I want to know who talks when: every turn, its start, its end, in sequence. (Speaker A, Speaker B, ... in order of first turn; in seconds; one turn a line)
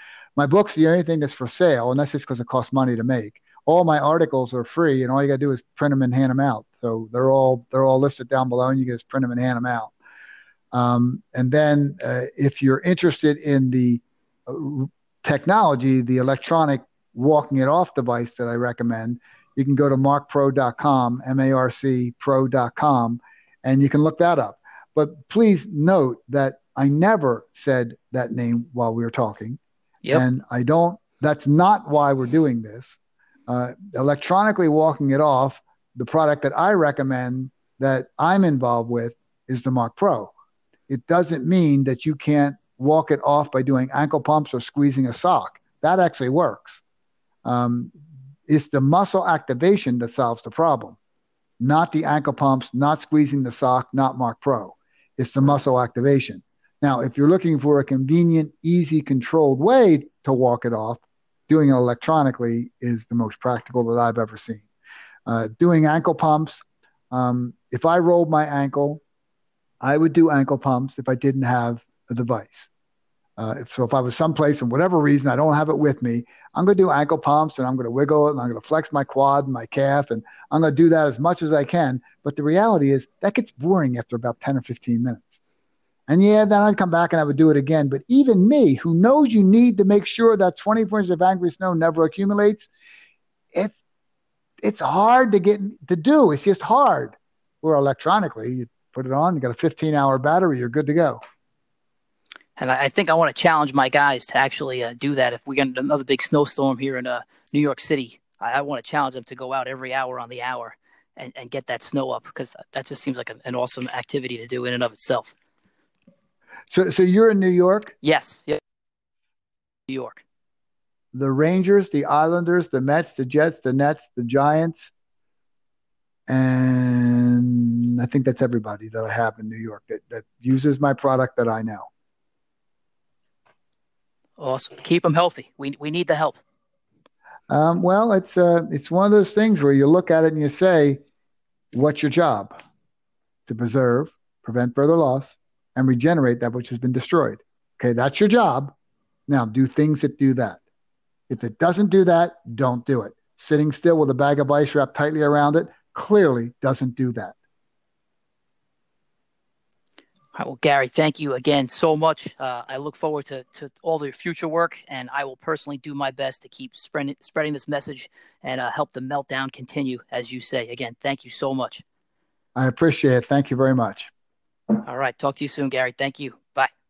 Speaker A: 0.4-9.9
Speaker A: 10.7-29.6
Speaker A: 30.1-40.3
Speaker A: 40.9-46.8
Speaker A: 47.4-47.9
Speaker A: 48.5-51.0
Speaker A: 51.6-64.7
Speaker A: 65.3-69.0
Speaker A: 69.8-72.7
Speaker A: 73.4-85.4
Speaker A: 86.1-92.7
Speaker A: 94.6-101.2
Speaker B: 102.6-115.3
Speaker A: 116.7-117.9
Speaker B: 118.0-118.6
Speaker B: 119.9-120.2
Speaker A: 121.1-124.9
Speaker A: 126.3-131.9
Speaker B: 134.4-136.4
Speaker A: 137.5-141.0
Speaker A: 141.7-142.6
Speaker A: 143.5-148.7
Speaker A: 149.3-150.6
Speaker A: 151.3-157.4
Speaker B: 160.3-171.8
Speaker A: 172.6-174.1
Speaker B: 174.8-176.7